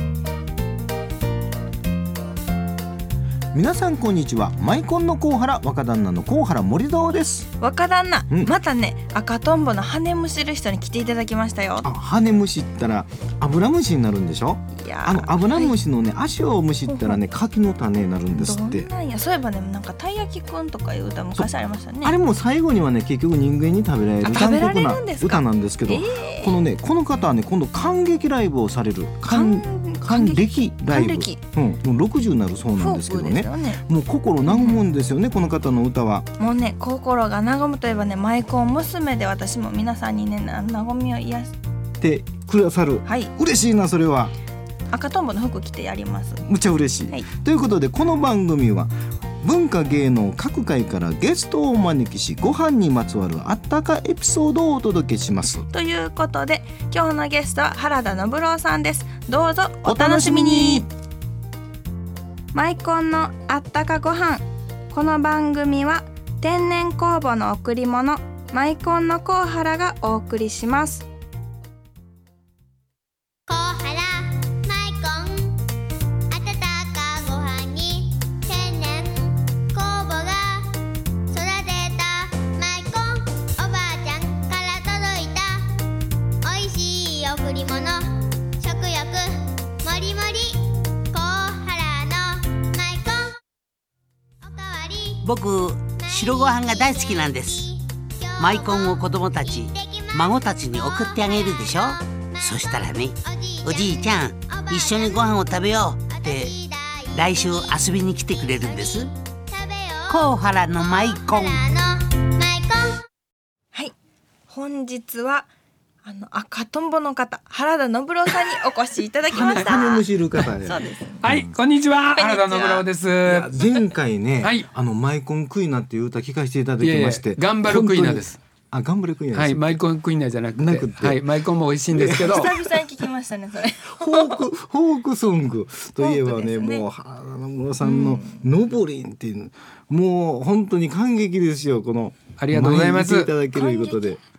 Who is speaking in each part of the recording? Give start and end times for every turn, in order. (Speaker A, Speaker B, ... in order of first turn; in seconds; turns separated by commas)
Speaker A: 3.5-7.5, Speaker B: 7.6-11.9, Speaker A: 11.8-18.9, Speaker B: 14.8-15.8, Speaker B: 16.9-17.2, Speaker B: 18.3-22.1, Speaker A: 22.0-36.3, Speaker B: 24.2-26.6, Speaker B: 29.3-31.4, Speaker B: 32.8-33.8, Speaker B: 34.5-34.8, Speaker B: 36.4-41.5, Speaker A: 42.0-44.3, Speaker B: 43.1-43.3, Speaker B: 44.9-46.4, Speaker A: 46.5-48.9, Speaker A: 49.4-55.6, Speaker B: 55.7-60.9, Speaker A: 59.9-60.9, Speaker B: 62.5-71.1, Speaker C: 73.5-75.6, Speaker C: 76.3-80.7, Speaker C: 81.3-85.7, Speaker C: 86.4-93.4, Speaker C: 94.4-95.3, Speaker D: 95.2-97.7, Speaker C: 95.9-113.1, Speaker D: 98.4-106.6, Speaker D: 107.2-109.1, Speaker D: 110.1-111.6, Speaker B: 114.5-115.5, Speaker B: 116.0-120.0, Speaker A: 119.3-121.5, Speaker E: 119.3-119.9, Speaker B: 120.7-121.3, Speaker E: 121.2-123.5, Speaker B: 122.2-122.8, Speaker A: 123.2-129.8, Speaker E: 124.4-124.7, Speaker E: 126.8-128.4, Speaker E: 129.3-132.5, Speaker A: 130.6-131.2, Speaker A: 131.9-132.6, Speaker B: 132.2-134.4, Speaker A: 133.9-144.2, Speaker B: 136.0-136.8, Speaker B: 137.8-138.4, Speaker E: 142.4-143.3, Speaker B: 143.6-144.2